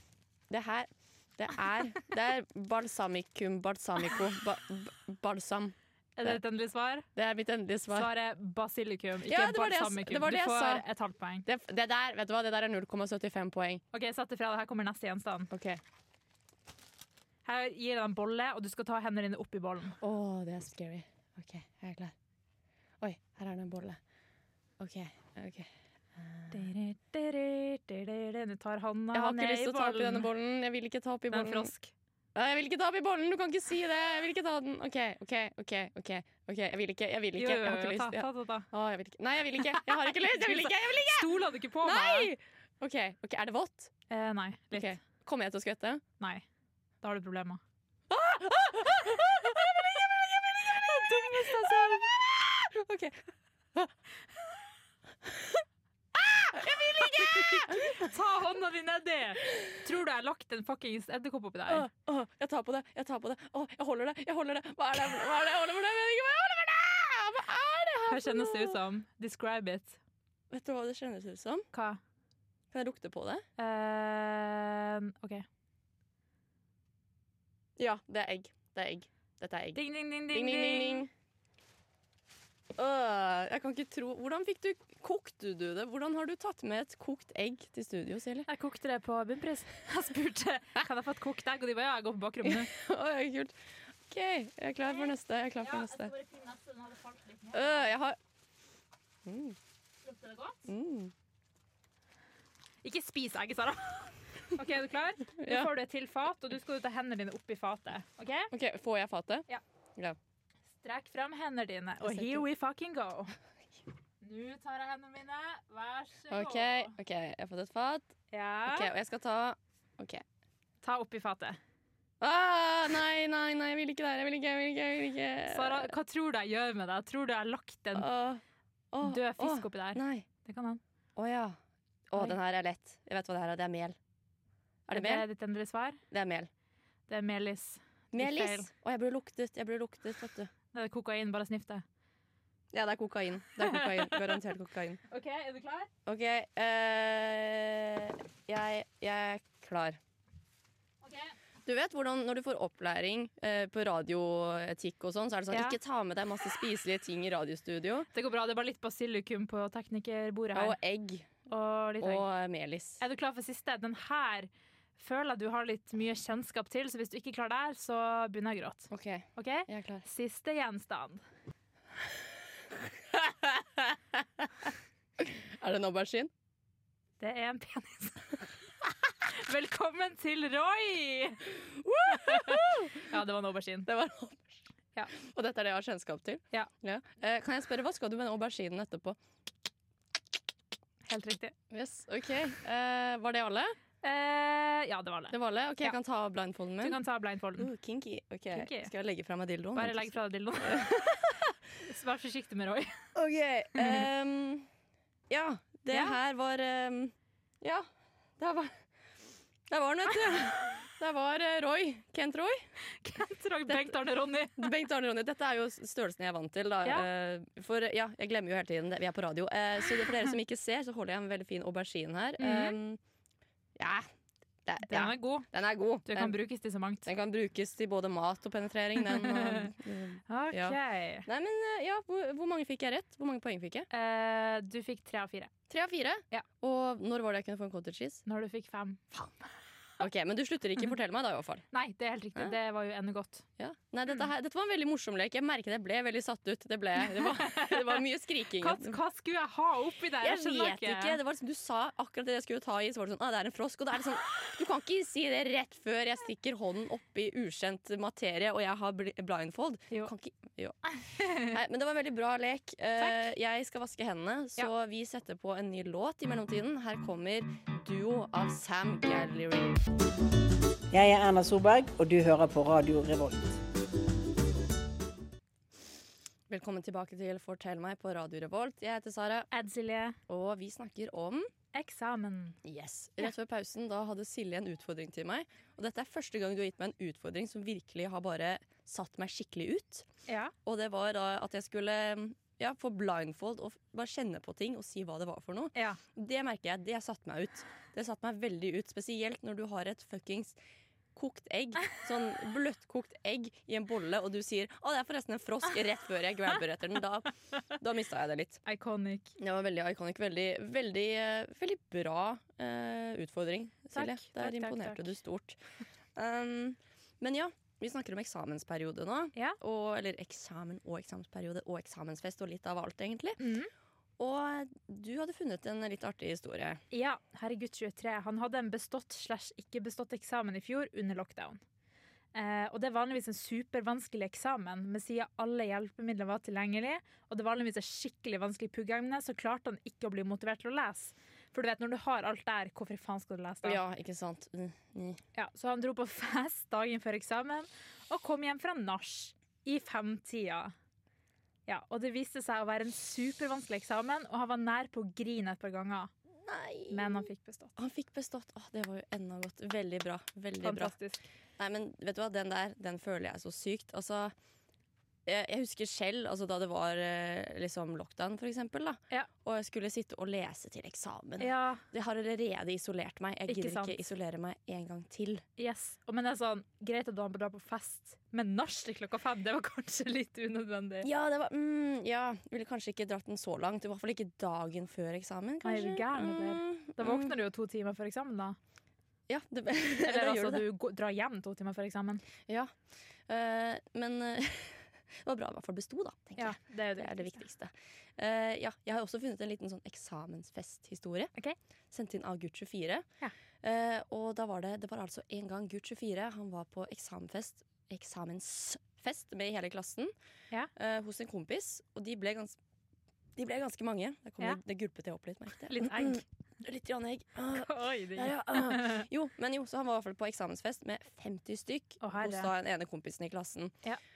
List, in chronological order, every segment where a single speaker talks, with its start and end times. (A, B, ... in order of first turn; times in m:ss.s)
0:00.5-0:06.4 A
0:06.2-0:07.1 B
0:07.2-0:08.1 A
0:07.9-0:11.5 B
0:09.3-0:10.8 A
0:11.4-0:13.8 A
0:13.9-0:15.5 B
0:15.5-0:15.8 A
0:17.4-0:20.0 B
0:20.0-0:22.1 A
0:23.0-0:24.0 A
0:24.8-0:25.7 A
0:26.2-0:26.6 A
0:26.5-0:30.3 B
0:29.1-0:31.7 A
0:31.3-0:31.9 B
0:32.4-0:43.9 A
0:37.4-0:38.7 B
0:39.6-0:42.3 B
0:44.1-0:45.0 B
0:44.7-0:46.0 A
0:46.2-0:46.4 B
0:47.0-0:47.6 B
0:48.1-0:53.9 A
0:50.7-0:52.0 B
0:55.3-0:55.6 A
0:56.2-0:58.1 A
0:57.0-1:01.9 B
1:01.7-1:08.8 A
1:08.1-1:10.0 B
1:10.5-1:11.7 A
1:11.7-1:12.0 B
1:12.7-1:13.4 A
1:13.6-1:15.5 B
1:17.8-1:21.1 A
1:19.8-1:21.1 B
1:22.8-1:28.5 A
1:28.5-1:32.7 B
1:32.4-1:33.6 A
1:34.1-1:36.1 A
1:34.9-1:37.9 B
1:37.5-1:38.2 A
1:39.3-1:39.6 A
1:40.0-1:40.6 B
1:40.7-1:41.1 A
1:42.8-1:48.5 B
1:45.4-1:45.7 A
1:48.5-1:49.5 A
1:50.8-1:53.3 B
1:52.0-1:52.4 A
1:54.2-1:57.0 B
1:56.3-1:58.2 A
1:58.3-1:58.9 B
1:58.7-2:00.2 A
2:00.8-2:01.6 B
2:02.2-2:05.9 A
2:05.5-2:08.1 B
2:08.0-2:10.3 A
2:09.0-2:10.8 B
2:11.2-2:11.6 A
2:12.1-2:14.0 A
2:14.9-2:15.3 A
2:14.9-2:16.0 B
2:16.1-2:16.5 A
2:17.1-2:18.7 B
2:18.1-2:20.5 A
2:20.7-2:21.8 B
2:22.7-2:25.0 A
2:23.6-2:24.4 B
2:25.1-2:25.9 B
2:26.1-2:30.0 A
2:31.0-2:31.3 B
2:31.6-2:38.1 A
2:35.5-2:35.8 B
2:38.1-2:40.8 B
2:40.5-2:41.3 A
2:41.5-2:42.3 B
2:42.0-2:43.0 A
2:43.0-2:51.2 B
2:48.9-2:50.0 A
2:53.3-2:53.8 A
2:55.2-2:56.3 A
2:57.2-2:58.4 B
2:59.2-3:01.5 B
3:01.6-3:03.0 A
3:02.1-3:03.9 B
3:03.9-3:09.2 A
3:11.0-3:11.5 B
3:11.7-3:13.8 A
3:14.0-3:16.0 B
3:15.3-3:17.0 A
3:16.8-3:17.7 B
3:17.6-3:21.5 A
3:18.5-3:18.9 B
3:19.8-3:21.3 B
3:21.8-3:23.0 B
3:23.2-3:24.7 A
3:23.8-3:24.1 B
3:25.3-3:27.9 A
3:25.9-3:26.2 B
3:28.4-3:28.8 A
3:29.7-3:32.7 A
3:33.0-3:34.7 B
3:33.7-3:33.9 A
3:34.6-3:43.0 A
3:42.4-3:42.8 B
3:43.8-3:44.1 A
3:44.7-3:46.4 A
3:44.9-3:45.5 B
3:46.0-3:47.1 B
3:47.0-3:53.9 A
3:49.0-3:49.7 B
3:50.3-3:51.3 B
3:53.9-3:55.5 B
3:55.7-3:58.2 A
3:58.3-3:59.1 B
4:00.0-4:01.7 A
4:01.7-4:03.4 B
4:03.6-4:09.0 A
4:07.0-4:08.0 B
4:08.6-4:11.2 B
4:10.2-4:29.8 A
4:21.1-4:21.6 B
4:30.9-4:33.6 C
4:36.5-4:39.5 A
4:39.5-4:40.2 B
4:40.3-4:41.5 A
4:41.7-4:42.6 B
4:42.6-4:50.1 A
4:50.3-4:50.5 B
4:50.6-5:00.6 A
4:55.8-4:56.0 B
5:01.2-5:08.6 A
5:08.7-5:09.4 B
5:09.4-5:15.6 A
5:13.9-5:15.1 B
5:16.2-5:23.4 A
5:23.4-5:23.7 B
5:24.2-5:26.8 A
5:26.9-5:31.6 B
5:32.3-5:43.8 B
5:43.6-5:45.2 A
5:45.4-5:50.7 B
5:51.7-5:56.1 B
5:56.4-6:00.9 A
5:56.9-5:57.8 B
6:00.6-6:01.3 B
6:01.6-6:04.3 A
6:05.3-6:15.4 A
6:11.4-6:11.8 B
6:13.5-6:14.0 B
6:15.6-6:21.1 B
6:21.0-6:27.4 A
6:25.6-6:28.6 B
6:29.3-6:30.6 A
6:30.0-6:32.2 B
6:32.5-6:41.3 A
6:36.4-6:37.4 B
6:41.9-6:43.1 A
6:43.6-6:50.1 A
6:50.7-6:52.6 A
6:53.4-7:03.7 A
6:55.7-6:56.2 B
6:57.5-6:59.1 B
7:02.0-7:02.5 B